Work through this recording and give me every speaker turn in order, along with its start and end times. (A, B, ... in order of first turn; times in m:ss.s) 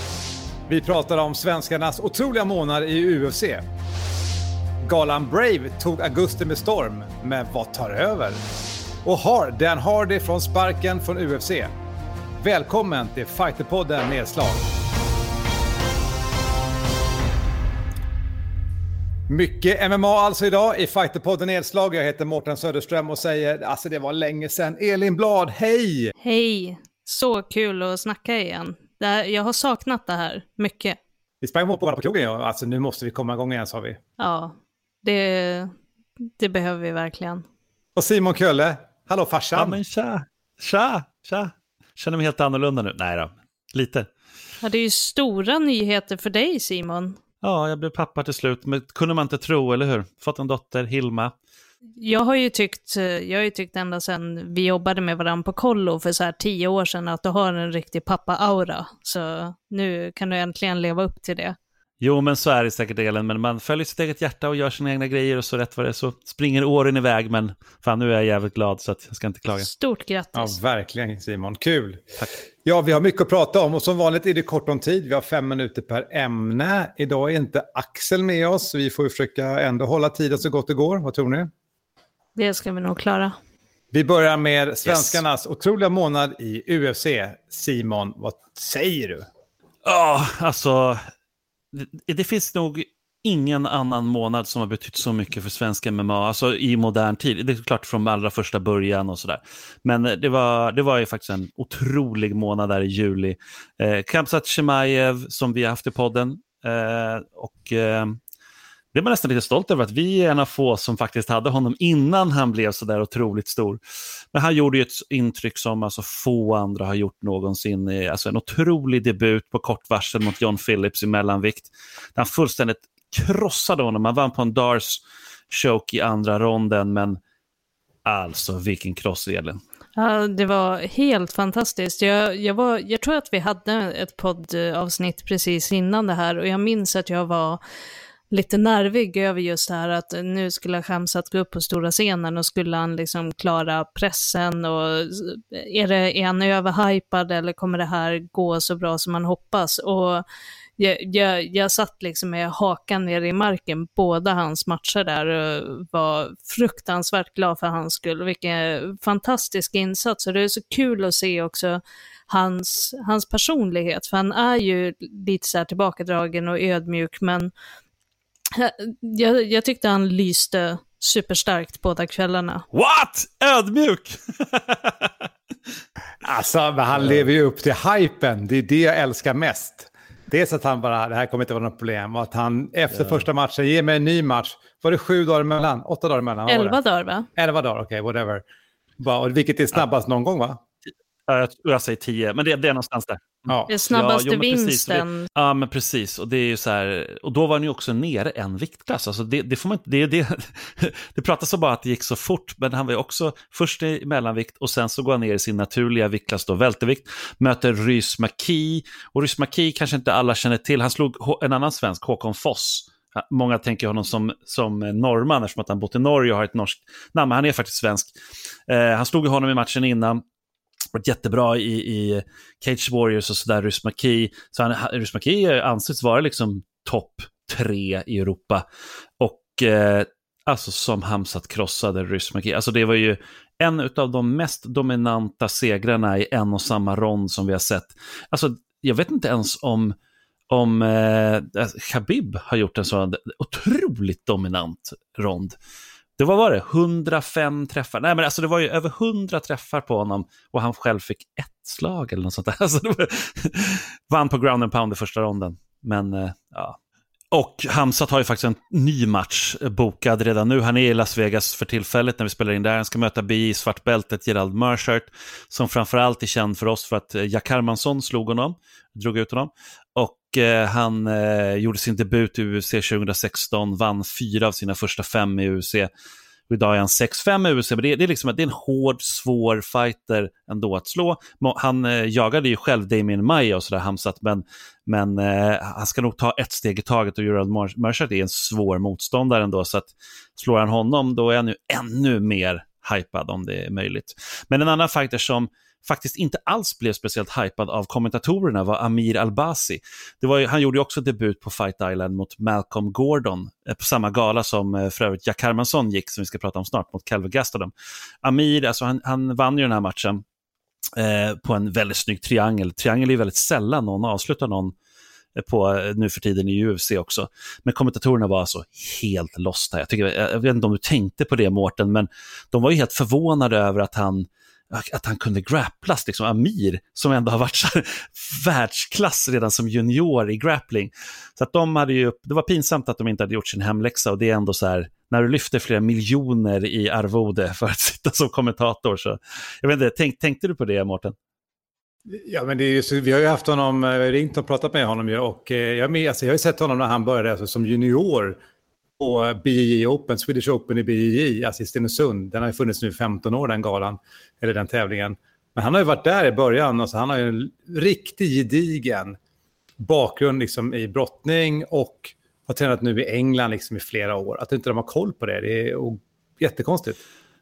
0:00.7-0:03.6 A
0:04.8-0:08.4 A
0:09.0-0:11.7 A
0:12.4-0:14.6 A
0:19.3-0:26.1 A
0:26.2-0:31.0 B
0:31.4-0:34.0 A
0:34.2-0:35.7 B
0:36.4-0:37.4 B
0:38.0-0:39.8 A
0:39.6-0:44.1 C
0:44.6-0:47.2 B
0:47.4-0:51.3 C
0:52.0-1:01.6 B
1:02.0-1:09.7 C
1:09.6-1:10.6 B
1:10.4-1:12.0 A
1:12.6-1:21.5 A
1:22.4-1:23.4 B
1:23.9-1:29.2 A
1:24.8-1:25.2 C
1:29.8-1:31.0 C
1:31.7-1:48.2 C
1:48.9-1:53.8 C
1:54.3-2:07.2 C
2:08.0-2:09.6 C
2:10.0-2:17.6 B
2:18.3-2:30.2 B
2:30.8-2:47.5 B
2:48.5-2:52.7 B
2:52.7-2:55.1 C
2:56.2-3:06.8 A
2:56.9-2:57.3 C
3:02.9-3:03.3 C
3:06.5-3:07.3 B
3:07.4-3:08.4 A
3:09.0-3:10.6 A
3:11.3-3:38.1 C
3:13.7-3:15.3 B
3:38.7-3:40.2 C
3:40.9-3:48.6 C
3:49.2-4:00.0 C
4:00.5-4:05.6 C
4:06.2-4:16.8 C
4:17.3-4:35.9 C
4:36.5-5:07.7 C
5:08.2-5:10.2 C
5:11.0-5:14.7 C
5:15.4-5:41.2 C
5:42.1-5:48.4 A
5:49.0-5:59.2 A
5:59.8-6:07.0 A